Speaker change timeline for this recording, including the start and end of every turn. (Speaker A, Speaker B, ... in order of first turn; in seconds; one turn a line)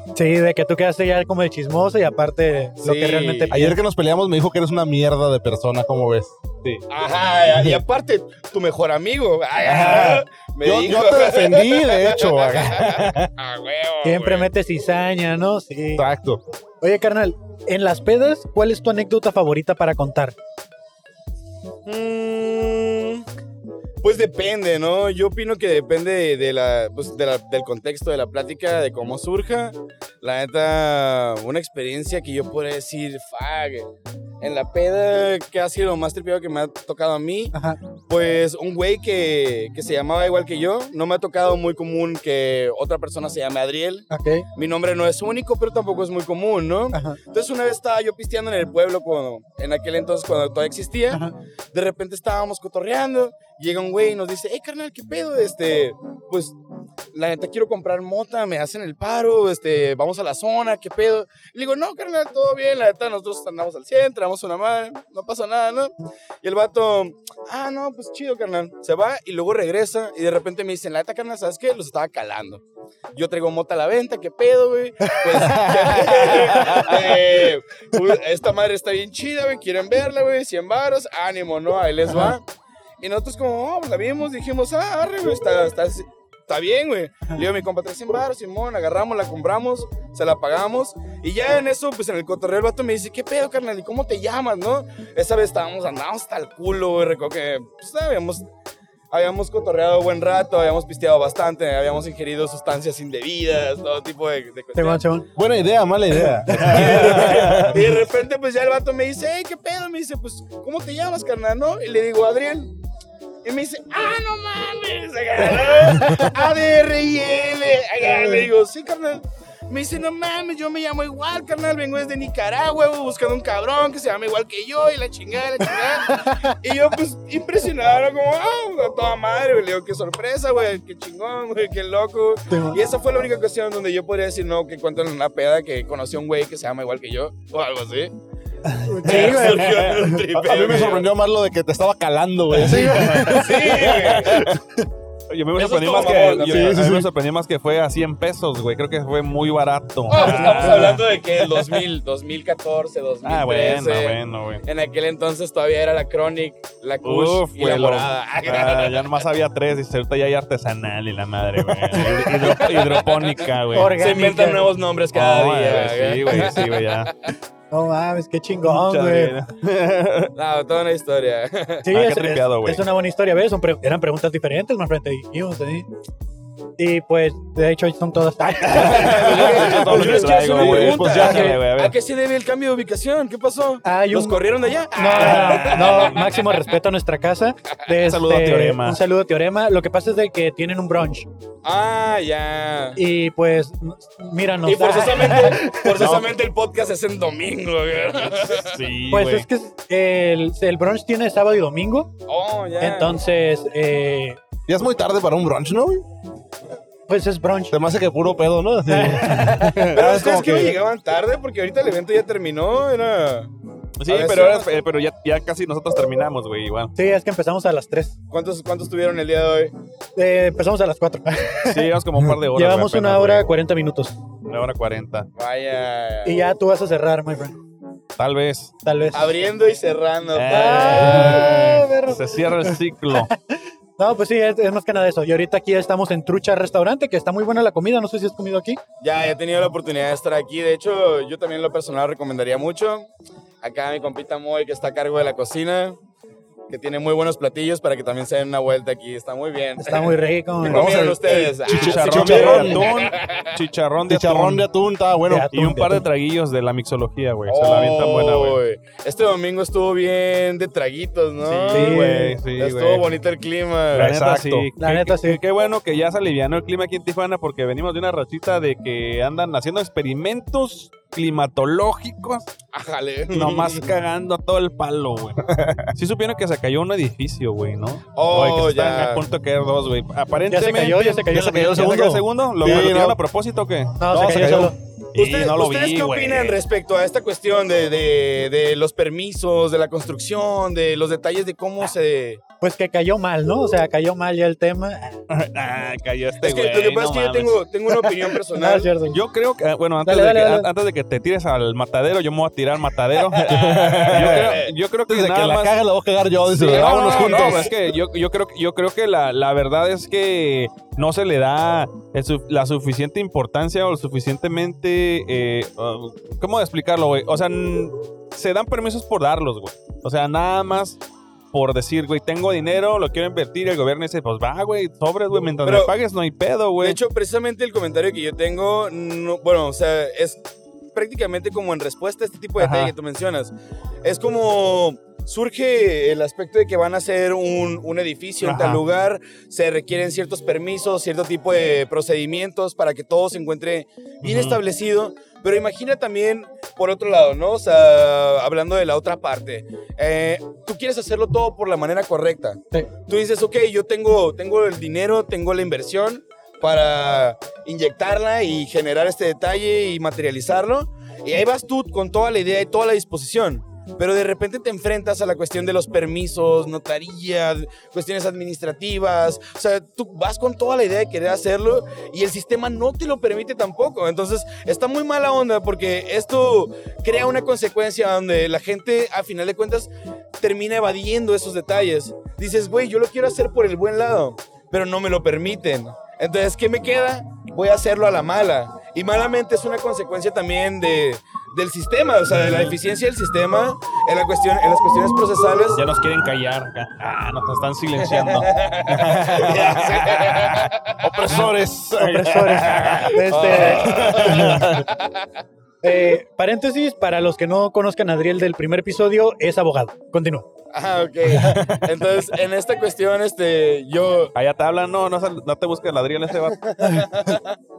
Speaker A: 0.1-3.8
Speaker B: 2.8-3.6
Speaker C: 3.5-6.8
Speaker B: 6.9-14.5
Speaker C: 7.5-7.8
Speaker C: 9.6-13.3
Speaker A: 14.0-16.0
Speaker C: 15.9-16.4
Speaker A: 16.8-20.3
Speaker B: 21.9-23.2
Speaker B: 24.0-33.9
Speaker B: 34.4-37.5
Speaker A: 37.5-37.8
Speaker B: 38.1-56.5
Speaker A: 44.1-44.5
Speaker A: 46.9-47.2
Speaker B: 57.1-72.6
Speaker B: 73.1-82.4
Speaker C: 75.2-76.9
Speaker B: 83.0-98.5
Speaker B: 99.1-105.0
Speaker A: 104.7-105.3
Speaker C: 105.3-107.8
Speaker A: 106.5-107.0
Speaker D: 106.6-107.7
Speaker B: 106.7-112.7
Speaker B: 113.4-138.1
Speaker C: 116.0-116.3
Speaker A: 118.1-118.4
Speaker A: 126.1-126.5
Speaker A: 132.5-132.8
Speaker A: 138.7-140.2
Speaker B: 139.0-141.1
Speaker C: 140.3-144.6
Speaker A: 142.5-143.5
Speaker B: 143.4-144.4
Speaker D: 145.3-151.8
Speaker B: 145.5-146.8
Speaker C: 146.4-147.1
Speaker B: 150.1-159.2
Speaker D: 153.2-154.6
Speaker D: 157.0-164.0
Speaker B: 161.8-167.3
Speaker A: 163.7-164.7
Speaker D: 165.1-167.1
Speaker A: 167.7-169.3
Speaker D: 168.7-170.3
Speaker B: 170.3-171.9
Speaker A: 171.8-175.8
Speaker D: 171.9-172.8
Speaker A: 176.8-180.6
Speaker D: 178.7-181.9
Speaker B: 178.9-186.6
Speaker C: 180.6-181.5
Speaker A: 181.1-181.6
Speaker A: 183.8-184.4
Speaker A: 184.9-191.3
Speaker D: 185.2-186.1
Speaker D: 188.0-189.0
Speaker B: 191.6-193.0
Speaker A: 192.9-196.1
Speaker B: 194.6-198.8
Speaker D: 198.6-199.4
Speaker A: 199.1-202.1
Speaker B: 202.3-203.2
Speaker A: 202.8-204.4
Speaker C: 204.7-206.0
Speaker A: 207.1-207.8
Speaker C: 207.7-210.7
Speaker A: 208.9-209.8
Speaker B: 209.9-213.5
Speaker D: 214.0-216.9
Speaker B: 214.1-214.7
Speaker A: 216.9-218.1
Speaker B: 218.3-219.7
Speaker A: 220.2-221.9
Speaker D: 221.7-223.5
Speaker A: 222.5-224.2
Speaker D: 224.4-225.3
Speaker B: 225.3-226.4
Speaker A: 226.2-227.6
Speaker D: 228.2-228.7
Speaker A: 228.8-229.3
Speaker B: 229.1-231.7
Speaker D: 230.3-233.3
Speaker A: 230.5-233.3
Speaker A: 234.0-238.8
Speaker B: 239.0-243.1
Speaker B: 243.6-246.0
Speaker B: 246.7-253.6
Speaker A: 249.8-251.4
Speaker C: 250.7-252.9
Speaker D: 251.7-254.7
Speaker C: 254.1-255.5
Speaker A: 255.3-256.0
Speaker D: 255.5-258.6
Speaker B: 257.4-264.1
Speaker D: 261.4-263.1
Speaker A: 261.7-262.3
Speaker D: 263.9-272.5
Speaker C: 264.0-264.7
Speaker A: 264.8-265.4
Speaker B: 272.7-273.9
Speaker D: 273.3-275.4
Speaker C: 275.5-275.9
Speaker D: 275.9-284.6
Speaker B: 278.1-279.2
Speaker A: 280.5-282.1
Speaker C: 281.3-283.2
Speaker A: 284.0-284.7
Speaker C: 284.1-284.7
Speaker D: 285.1-286.6
Speaker B: 285.1-292.4
Speaker A: 292.6-295.2
Speaker D: 295.3-298.3
Speaker B: 296.4-299.0
Speaker A: 298.6-299.2
Speaker D: 299.1-305.8
Speaker A: 300.0-300.7
Speaker C: 303.3-307.8
Speaker B: 303.4-304.7
Speaker B: 306.6-307.7
Speaker D: 306.6-321.0
Speaker D: 321.5-327.0
Speaker B: 325.6-325.9
Speaker B: 326.8-330.4
Speaker B: 330.9-395.8
Speaker D: 332.6-332.9
Speaker D: 338.4-338.8
Speaker D: 344.2-344.6
Speaker D: 392.4-392.7
Speaker D: 395.7-400.7
Speaker B: 398.0-401.0
Speaker C: 401.0-403.1
Speaker A: 402.0-403.9
Speaker B: 402.9-405.2
Speaker C: 403.9-404.8
Speaker A: 405.8-410.5
Speaker B: 410.7-414.3
Speaker C: 411.4-411.8
Speaker D: 414.3-416.6
Speaker B: 416.5-417.5